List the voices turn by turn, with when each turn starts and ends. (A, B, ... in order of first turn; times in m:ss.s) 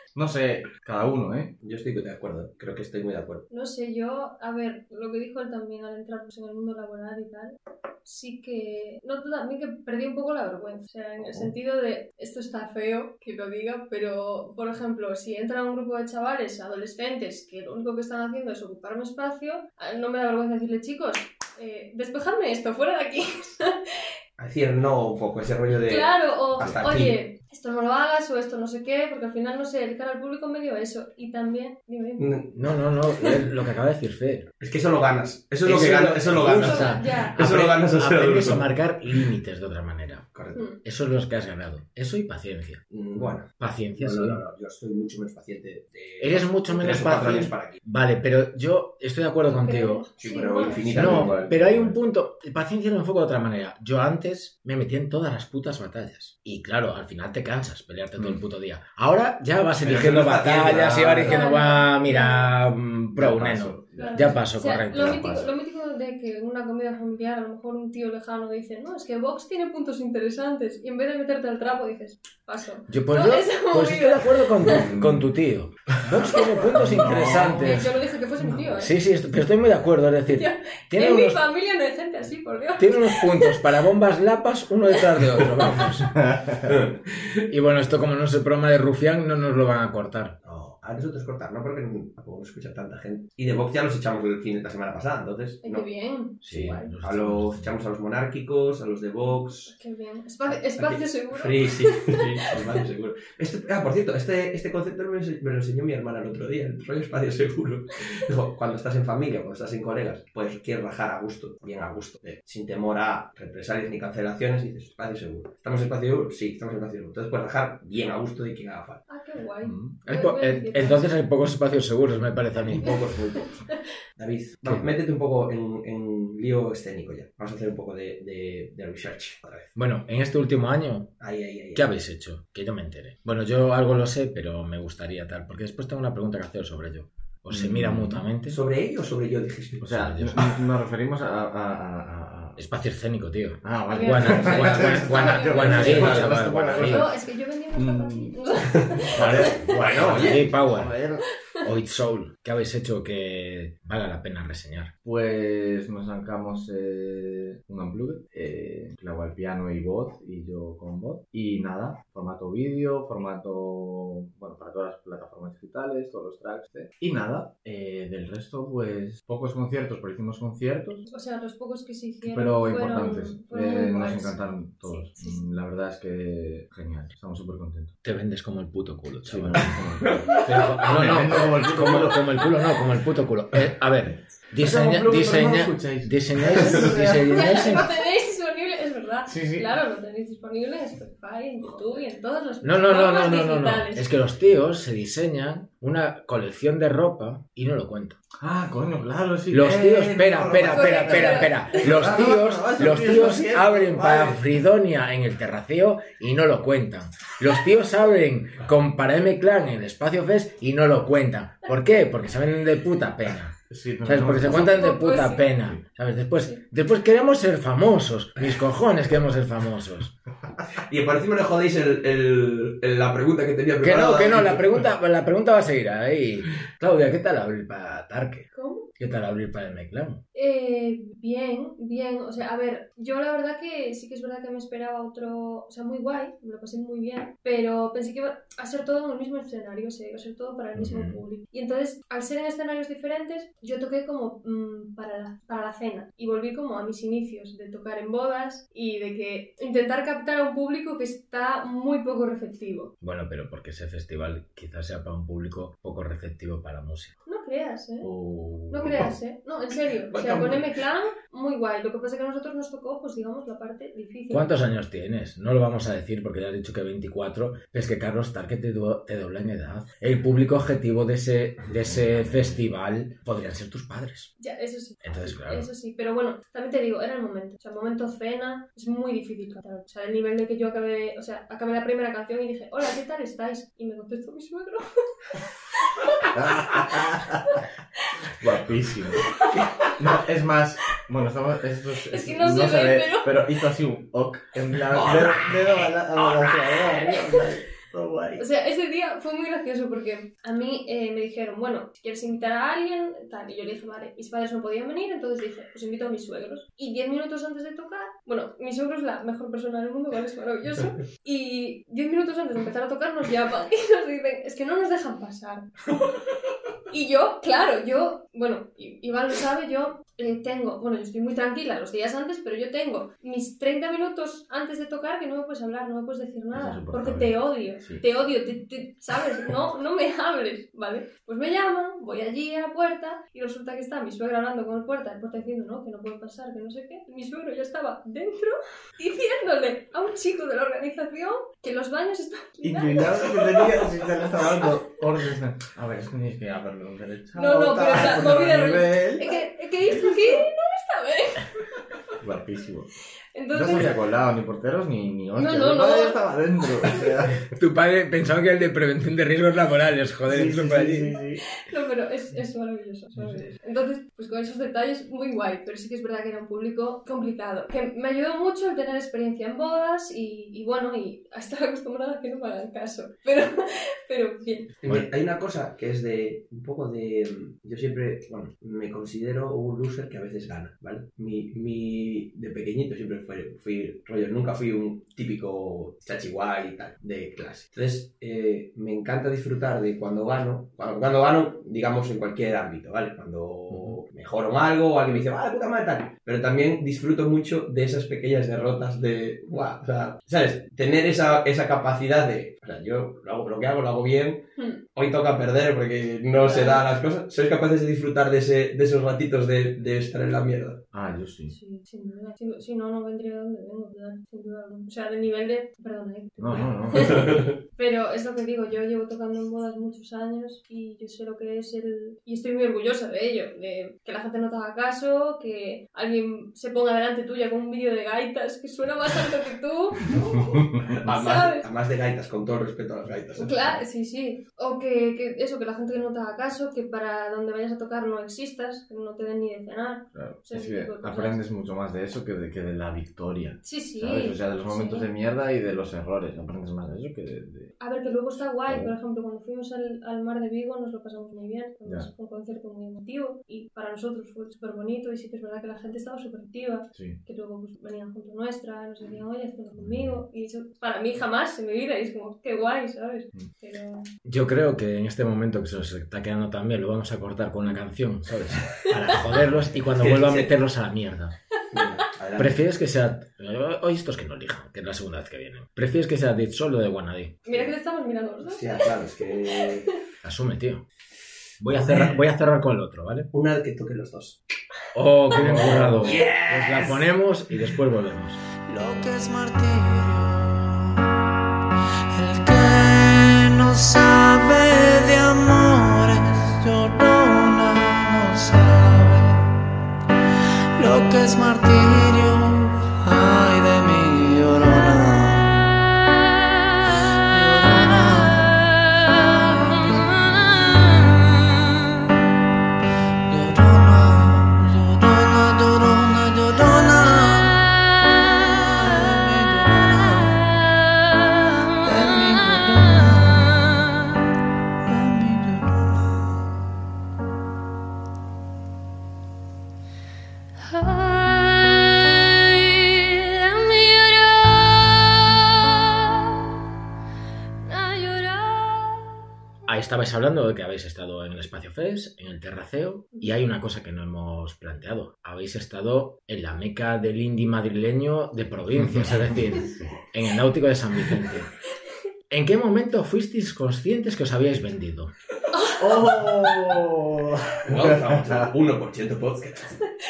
0:00.1-0:01.5 A
0:01.6-0:03.4 B
0:03.5-0:23.8 C
0:24.4-0:27.2 B
0:25.8-0:32.4 C
0:32.2-0:32.6 B
0:32.5-0:34.5 D
0:34.6-0:39.2 B
0:35.6-0:40.3 D
0:36.5-0:37.4 C
0:40.3-0:40.6 B
0:40.5-0:40.8 C
0:40.8-0:44.4 D
0:42.9-0:47.8 B
0:46.2-0:50.0 D
0:49.5-0:50.9 C
0:50.2-0:51.6 B
0:50.8-0:52.0 A
0:50.9-1:05.2 D
0:58.2-0:58.4 A
0:59.8-1:01.4 B
1:01.2-1:02.6 C
1:03.1-1:05.5 A
1:04.0-1:14.8 C
1:12.9-1:17.9 D
1:14.6-1:15.3 A
1:16.1-1:18.7 A
1:16.2-1:18.9 C
1:18.8-1:21.4 D
1:20.3-1:23.7 C
1:22.8-1:26.2 D
1:26.2-1:26.6 A
1:26.7-1:26.9 B
1:27.5-1:30.3 D
1:30.4-1:35.8 B
1:35.6-1:36.9 C
1:36.4-1:37.7 D
1:37.0-1:39.7 B
1:39.2-1:42.2 C
1:40.5-1:59.0 B
1:59.1-2:01.1 C
1:59.6-1:59.9 A
2:00.0-2:03.1 D
2:02.5-2:03.5 B
2:02.8-2:03.8 C
2:04.2-2:09.7 B
2:09.8-2:11.1 D
2:11.2-2:11.9 B
2:11.7-2:18.6 D
2:17.5-2:18.2 A
2:18.5-2:20.4 B
2:19.8-2:22.6 A
2:19.8-2:20.5 D
2:22.6-2:27.1 D
2:23.6-2:27.2 A
2:23.9-2:26.1 C
2:25.6-2:26.3 B
2:26.8-2:29.6 C
2:27.7-2:28.4 A
2:29.0-2:30.5 B
2:29.1-2:31.2 A
2:29.8-2:30.9 D
2:31.6-2:34.9 D
2:35.0-2:51.0 A
2:51.0-2:55.4 C
2:52.2-2:57.9 A
2:58.0-2:59.8 D
2:59.2-3:02.4 A
3:00.0-3:00.9 B
3:00.4-3:07.9 D
3:04.6-3:07.5 A
3:07.3-3:14.0 C
3:09.3-3:09.7 A
3:12.6-3:18.2 D
3:18.4-3:24.4 A
3:19.5-3:40.1 D
3:20.7-3:21.8 C
3:33.7-3:35.0 A
3:34.5-3:35.4 C
3:40.8-3:44.8 B
3:43.8-3:50.2 D
3:48.5-3:48.9 C
3:50.3-4:12.9 C
4:00.8-4:01.2 D
4:13.0-4:17.1 D
4:17.2-4:18.1 C
4:18.0-4:19.0 A
4:18.7-4:24.5 C
4:20.1-4:20.6 B
4:24.3-4:34.3 D
4:31.7-4:32.6 A
4:34.4-4:48.0 C
4:35.0-4:35.7 D
4:46.3-4:47.6 A
4:48.3-4:49.4 A
4:49.2-4:49.9 C
4:49.9-4:58.4 A
4:52.1-4:53.4 C
4:54.9-4:56.7 B
4:58.4-5:15.7 C
5:16.9-5:44.6 C
5:26.5-5:28.1 A
5:42.6-5:50.4 A
5:47.3-5:51.5 C
5:52.2-5:52.9 A
5:53.3-5:53.9 C
5:53.5-5:57.4 A
5:55.3-5:56.3 C
5:57.5-6:01.1 D
6:00.2-6:01.4 A
6:01.5-6:14.7 C
6:14.8-6:44.4 B
6:44.6-6:44.8 C
6:44.9-6:50.8 B
6:46.3-6:46.8 C
6:50.9-6:51.5 A
6:51.5-7:11.7 C
6:56.4-6:57.4 A
6:56.9-6:57.6 B
7:10.2-7:11.0 A
7:10.9-7:13.8 B
7:13.4-7:21.4 C
7:20.1-7:27.7 A
7:23.6-7:25.1 C
7:27.8-7:44.1 C
7:28.6-7:28.9 A
7:36.9-7:37.2 A
7:39.7-7:40.2 A
7:44.2-7:51.3 D
7:50.0-7:50.5 B
7:51.7-7:52.6 B
7:52.4-7:57.4 D
7:57.4-7:59.9 C
7:58.4-7:59.9 B
8:00.2-8:00.8 D
8:01.6-8:03.3 D
8:01.7-8:02.2 B
8:03.3-8:04.4 B
8:04.9-8:08.4 D
8:05.3-8:06.2 A
8:06.0-8:07.0 B
8:08.6-8:11.0 E
8:12.1-8:19.5 E
8:20.8-8:25.8 E
8:27.3-8:31.4 E
8:33.3-8:40.6 E
8:41.7-8:44.0 E
8:44.8-8:46.3 E
8:50.7-8:56.3 C
8:57.6-8:59.1 C
8:59.7-9:11.5 D
9:08.7-9:09.9 A
9:12.3-9:15.1 D
9:15.5-9:16.7 C
9:15.8-9:18.5 A
9:17.6-9:19.8 B